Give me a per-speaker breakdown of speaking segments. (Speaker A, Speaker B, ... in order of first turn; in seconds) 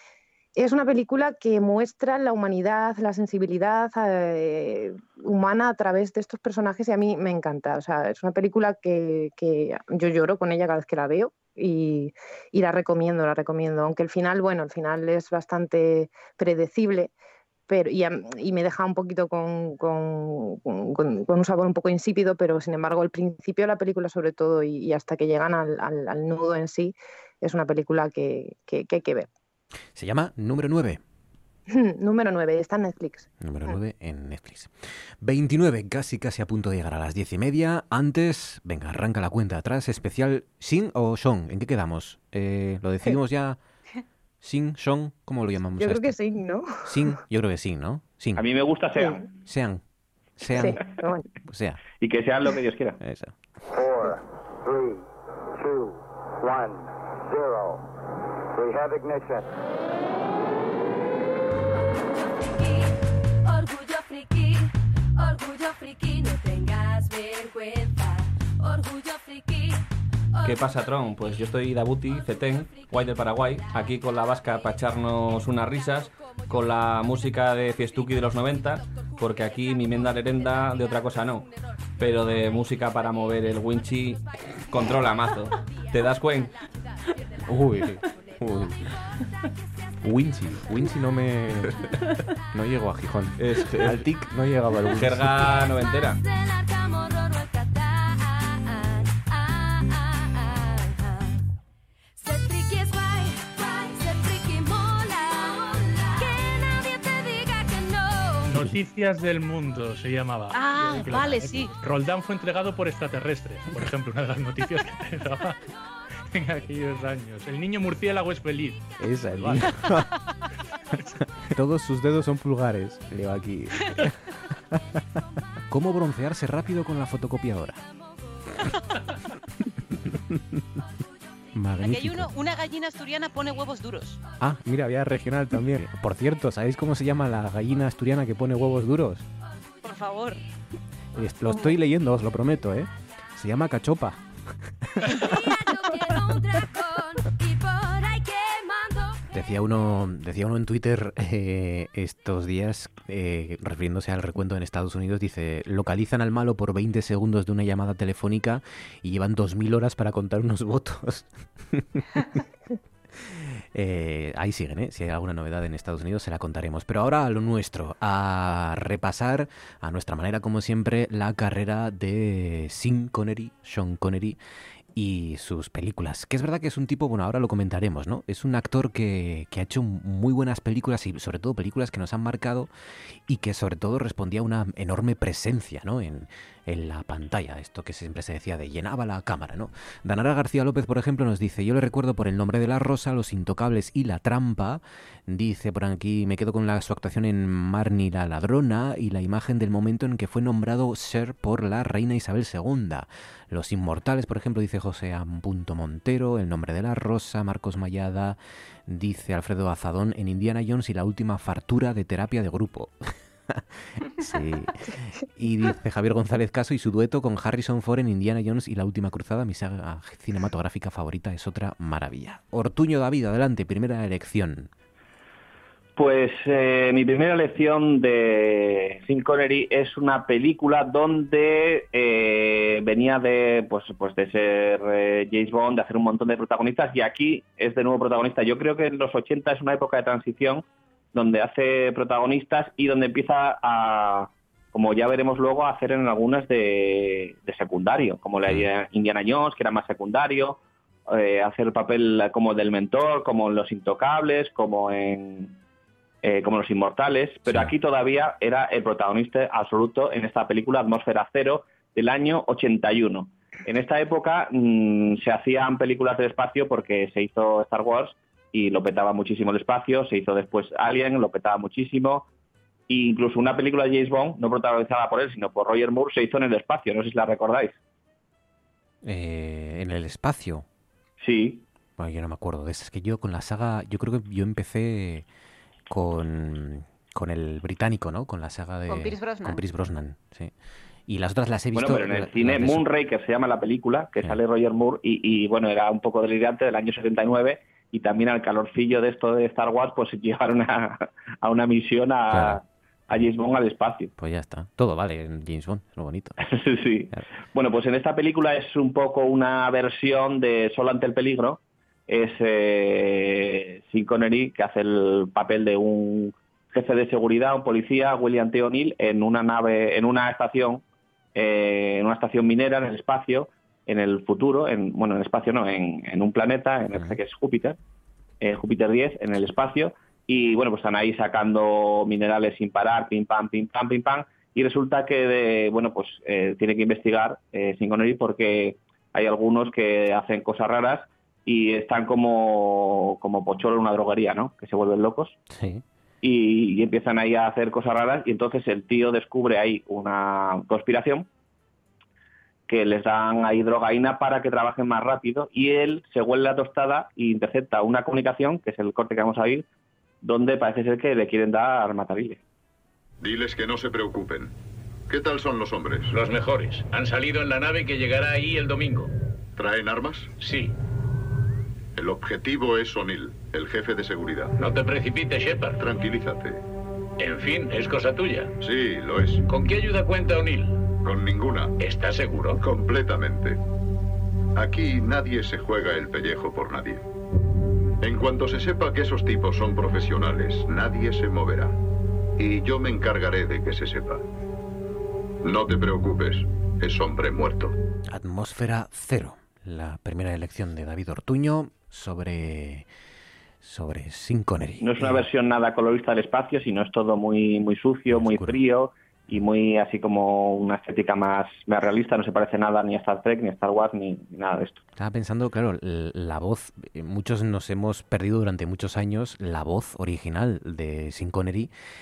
Speaker A: 0.6-17.1, 17.7-29.3, 31.7-33.3, 45.8-47.1, 50.5-51.2
Speaker B: 29.9-31.0, 33.4-43.6, 44.4-46.2, 46.8-48.4, 49.5-49.8, 50.4-50.8, 51.5-51.8, 53.0-53.4, 87.5-88.7, 90.0-91.7, 92.5-95.5, 119.0-120.0, 121.5-124.1, 125.7-127.8, 131.5-132.3, 134.4-139.2, 141.2-144.2, 144.8-145.2, 149.3-162.0, 163.3-174.4, 174.9-182.7, 183.3-213.6, 214.2-224.7, 279.0-280.6, 282.0-285.2, 285.9-290.5, 291.1-292.8, 302.3-302.6, 304.1-306.4, 326.9-327.2, 345.5-345.8, 398.1-402.9, 403.6-405.2, 408.1-408.6, 414.9-421.7
Speaker C: 48.3-49.2, 52.0-53.0, 225.9-255.6, 256.2-272.2, 272.9-277.8, 281.2-281.6, 291.7-304.1, 306.5-320.8, 321.3-327.8, 328.4-345.4, 346.2-351.3, 352.7-359.6, 360.2-362.4, 404.8-414.8
Speaker D: 53.7-57.8, 58.5-59.5
Speaker E: 61.8-69.8, 70.4-70.9, 72.1-74.5, 75.9-76.9, 77.9-84.3, 84.9-90.2, 95.4-101.4, 102.2-108.6, 127.9-129.0, 145.2-149.2
Speaker F: 70.4-81.4, 82.0-86.5, 93.4-94.0, 94.9-96.2
Speaker G: 108.5-115.6, 116.3-118.8, 119.3-119.7
Speaker H: 110.5-111.7, 131.8-134.2, 139.8-140.4, 288.9-289.6
Speaker I: 363.2-364.5, 365.1-366.1, 369.6-370.3, 371.9-374.6, 375.8-376.6, 378.6-379.4, 381.0-381.7, 382.6-383.6, 384.6-387.0, 388.0-391.8, 392.4-394.2, 395.4-397.7
Speaker J: 366.1-369.1, 370.4-370.7, 374.6-375.8, 377.2-378.5, 379.5-380.8, 381.8-382.6